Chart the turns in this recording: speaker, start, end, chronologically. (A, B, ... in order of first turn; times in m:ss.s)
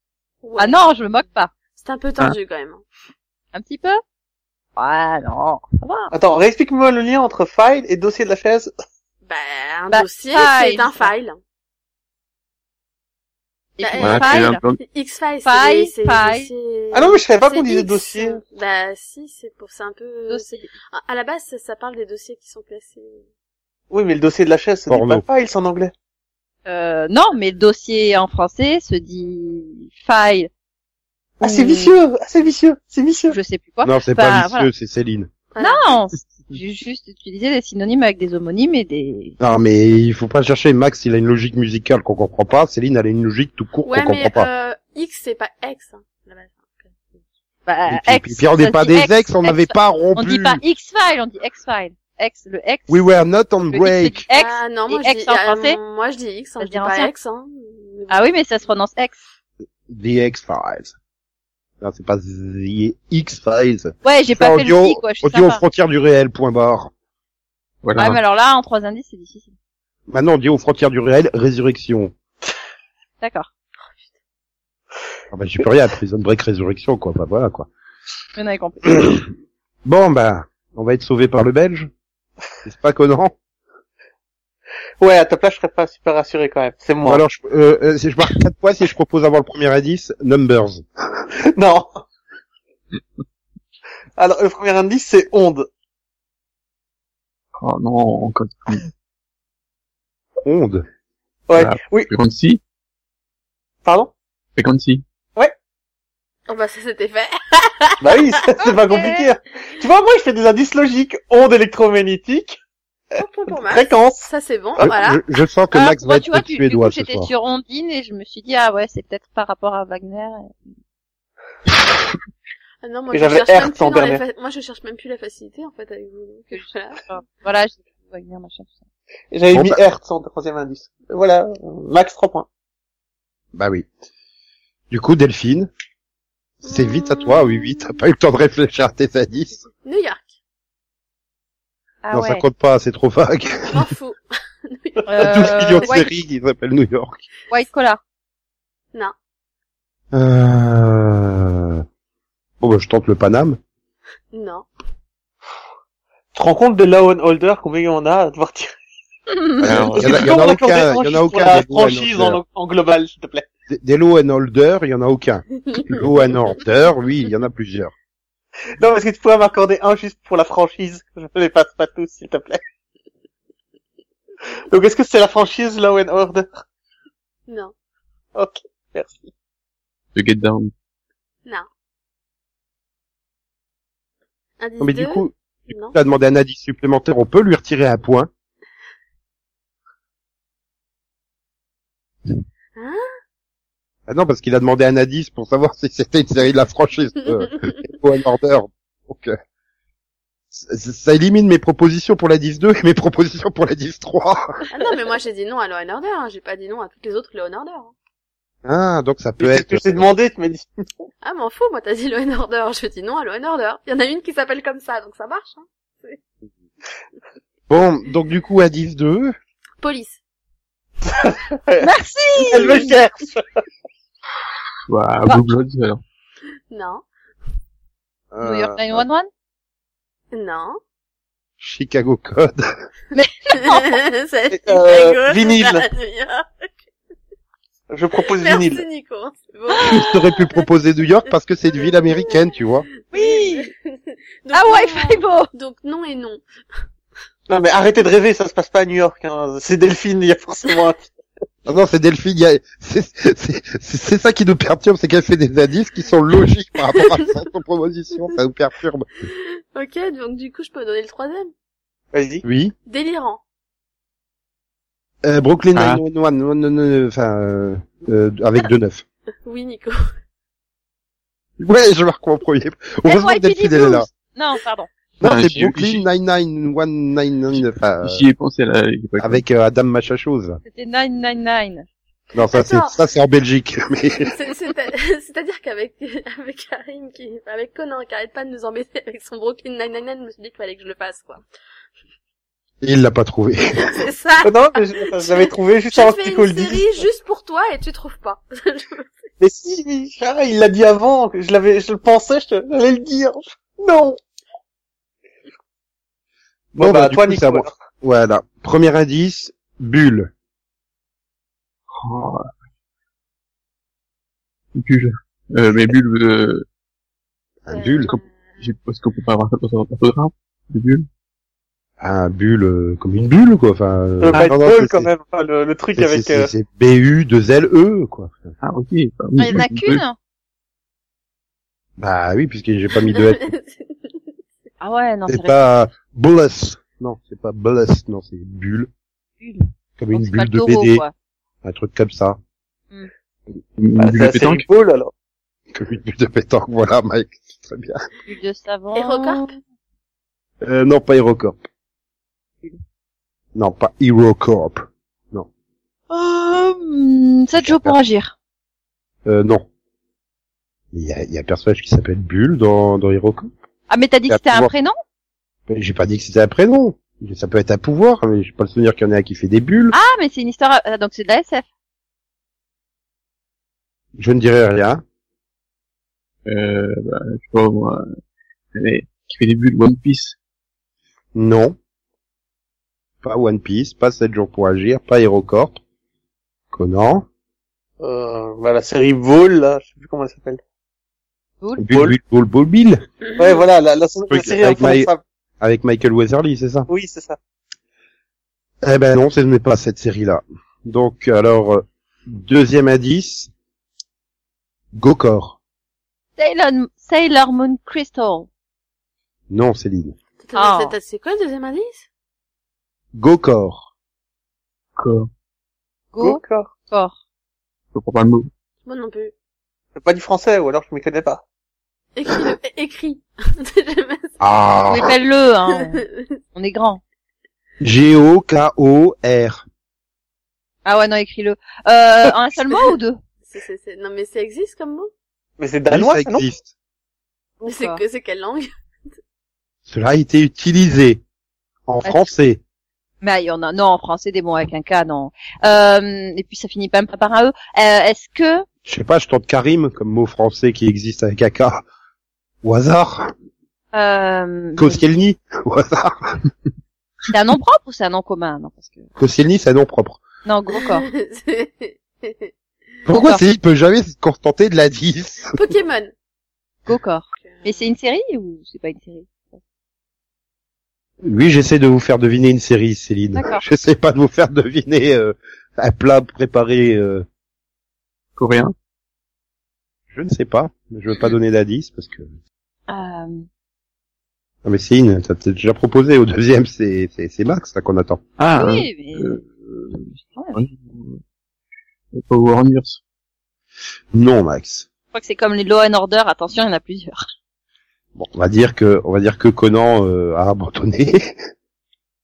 0:00.4-0:00.9 A
0:00.6-0:01.5 B
0:01.8-0:02.8 A
0:03.5-0:04.0 B
0:04.8-0:06.1 B
0:06.1-0:08.7 C
0:09.2-0:11.4 A
0:09.9-0:11.1 B
0:13.8-0:14.6 B
0:13.8-0:23.2 A
0:14.0-0:14.8 D
0:15.4-0:16.5 B
0:16.9-0:18.4 C
0:20.3-0:20.7 B
0:23.9-0:25.9 C
0:24.9-0:25.2 E
0:26.7-0:30.5 B
0:31.4-0:33.4 C
0:31.4-0:31.9 B
0:33.3-0:34.7 B
0:33.8-0:35.3 E
0:35.5-0:35.9 A
0:35.6-0:39.4 B
0:39.4-0:44.5 E
0:43.9-0:47.1 A
0:47.7-0:53.0 B
0:47.9-0:50.6 E
0:52.9-0:54.3 E
0:53.7-0:55.8 B
0:54.3-0:58.3 A
0:56.6-0:57.1 B
0:58.1-0:59.2 B
0:59.9-1:00.9 E
1:01.8-1:06.9 E
1:04.0-1:05.6 B
1:07.8-1:08.2 D
1:08.0-1:09.5 B
1:10.1-1:12.1 E
1:13.2-1:13.5 B
1:15.3-1:17.7 E
1:18.4-1:19.0 B
1:18.9-1:19.2 E
1:19.8-1:21.9 E
1:22.6-1:23.3 E
1:25.0-1:27.2 C
1:27.0-1:30.9 E
1:31.4-1:32.0 C
1:34.2-1:35.7 C
1:37.6-1:38.9 D
1:40.4-1:40.9 E
1:41.5-1:42.1 C
1:41.6-1:42.6 D
1:43.8-1:44.1 C
1:44.6-1:45.0 D
1:46.5-1:48.5 A
1:48.0-1:52.6 C
1:48.7-1:49.3 B
1:53.2-1:55.2 A
1:53.6-1:54.3 C
1:54.8-1:57.3 E
1:55.7-2:00.5 B
2:02.8-2:07.0 A
2:03.1-2:04.2 C
2:06.5-2:08.8 B
2:09.3-2:12.5 C
2:09.5-2:09.8 E
2:13.5-2:13.9 E
2:14.9-2:15.7 E
2:16.6-2:19.6 E
2:16.6-2:18.0 A
2:19.8-2:20.4 A
2:22.0-2:22.5 B
2:22.1-2:23.9 E
2:23.7-2:26.0 A
2:25.1-2:26.1 B
2:25.2-2:27.2 E
2:27.5-2:28.0 B
2:30.1-2:31.8 E
2:32.6-2:33.6 E
2:34.3-2:34.7 A
2:36.3-2:38.7 C
2:39.6-2:43.5 C
2:39.6-2:40.4 D
2:40.0-2:42.4 E
2:43.7-2:47.9 E
2:45.7-2:46.0 A
2:48.8-2:52.6 C
2:54.7-2:56.6 C
2:57.5-2:57.7 A
2:58.4-2:59.3 C
3:00.2-3:00.7 D
3:04.6-3:06.0 A
3:04.8-3:05.3 E
3:05.9-3:08.3 E
3:12.8-3:13.1 A
3:14.1-3:19.3 E
3:17.3-3:17.7 A
3:20.5-3:24.6 E
3:24.7-3:27.9 A
3:28.6-3:30.0 E
3:29.4-3:30.8 C
3:31.2-3:36.2 A
3:37.7-3:39.4 E
3:39.8-3:40.2 A
3:41.1-3:43.5 C
3:41.8-3:43.0 B
3:44.9-3:46.0 D
3:46.7-3:47.0 A
3:48.3-3:49.1 E
3:48.4-3:49.3 B
3:50.3-3:50.8 A
3:51.6-3:52.7 E
3:53.1-3:54.0 B
3:53.6-3:56.7 A
3:54.5-3:55.9 C
3:57.9-3:58.8 C
3:58.2-4:00.5 A
3:59.8-4:02.9 E
4:01.7-4:02.4 A
4:03.1-4:03.7 B
4:03.1-4:06.4 A
4:04.5-4:05.5 B
4:07.5-4:11.1 C
4:11.7-4:19.1 E
4:16.9-4:17.3 A
4:19.2-4:21.5 A
4:22.1-4:22.4 C
4:22.4-4:22.7 E
4:22.9-4:23.4 A
4:25.2-4:29.0 E
4:25.8-4:26.0 D
4:29.5-4:30.0 A
4:31.6-4:34.1 E
4:33.0-4:34.9 B
4:35.2-4:38.2 E
4:35.2-4:36.0 D
4:38.0-4:39.4 D
4:39.2-4:40.6 E
4:40.7-4:41.9 B
4:42.4-4:44.3 E
4:42.5-4:43.0 A
4:44.3-4:51.5 A
4:52.8-4:53.9 E
4:53.8-4:59.2 A
4:54.4-4:57.0 C
4:59.4-5:04.2 C
5:06.7-5:07.8 C
5:06.8-5:10.3 E
5:12.0-5:12.5 D
5:14.8-5:16.7 D
5:17.6-5:18.2 E
5:17.7-5:18.6 A
5:18.6-5:21.1 D
5:22.0-5:25.1 E
5:24.2-5:26.5 C
5:26.0-5:28.6 E
5:28.6-5:30.0 D
5:29.4-5:30.2 B
5:32.0-5:33.5 E
5:33.1-5:34.2 A
5:34.8-5:35.7 B
5:35.3-5:38.9 E
5:39.4-5:41.1 B
5:40.0-5:41.0 E
5:41.6-5:42.4 E
5:43.8-5:44.6 D
5:44.0-5:45.1 C
5:45.7-5:48.1 E
5:48.3-5:49.5 B
5:49.0-5:49.5 A
5:50.6-5:51.6 E
5:53.6-5:55.5 E
5:56.1-5:58.3 B
5:57.6-5:58.0 E
5:59.2-5:59.7 E
6:00.9-6:03.5 E
6:03.9-6:05.0 B
6:04.3-6:04.7 E
6:05.7-6:10.0 E
6:09.9-6:11.7 B
6:14.2-6:15.0 E
6:16.5-6:18.1 D
6:18.7-6:20.4 D
6:21.4-6:21.8 E
6:23.2-6:25.8 E
6:26.7-6:27.3 E
6:28.0-6:30.6 C
6:31.8-6:33.0 E
6:33.4-6:33.6 A
6:33.4-6:35.2 C
6:34.3-6:35.1 E
6:35.6-6:36.9 E
6:36.9-6:37.4 C
6:38.8-6:43.5 E
6:44.9-6:45.6 E
6:46.4-6:48.5 B
6:49.5-6:50.2 E
6:50.4-6:52.1 A
6:50.6-6:51.0 B
6:53.1-6:53.9 E
6:55.0-6:55.3 D
6:56.1-6:57.2 B
6:56.2-6:56.7 C
6:57.9-6:58.5 D
6:58.8-6:59.3 A
7:00.0-7:01.4 C
7:02.2-7:04.4 A
7:04.4-7:05.1 E
7:04.9-7:06.0 B
7:05.7-7:06.3 A
7:06.6-7:07.0 B
7:07.8-7:09.6 E
7:10.8-7:13.2 B
7:13.5-7:15.1 A
7:15.6-7:16.5 C
7:15.9-7:16.7 E
7:17.6-7:18.0 B
7:17.7-7:18.7 A
7:19.9-7:21.2 E
7:21.9-7:22.6 E
7:22.0-7:22.3 B
7:23.2-7:28.7 B
7:28.9-7:31.8 E
7:32.6-7:33.3 E
7:33.9-7:35.0 B
7:34.8-7:36.4 E
7:37.3-7:39.1 B
7:39.2-7:40.2 E
7:40.4-7:41.1 B
7:40.7-7:42.5 A
7:43.1-7:45.6 E
7:43.1-7:43.4 B
7:45.5-7:46.1 A
7:46.9-7:49.6 B
7:47.5-7:47.9 A
7:51.2-7:57.3 E
7:53.4-7:53.6 B
7:58.4-7:58.7 D
8:00.1-8:02.3 E
8:02.9-8:03.5 B
8:04.6-8:08.2 E
8:08.4-8:11.2 D
8:08.6-8:09.4 B
8:10.2-8:10.6 B
8:12.1-8:13.0 D
8:14.1-8:14.9 E
8:15.1-8:17.2 B
8:18.2-8:21.3 E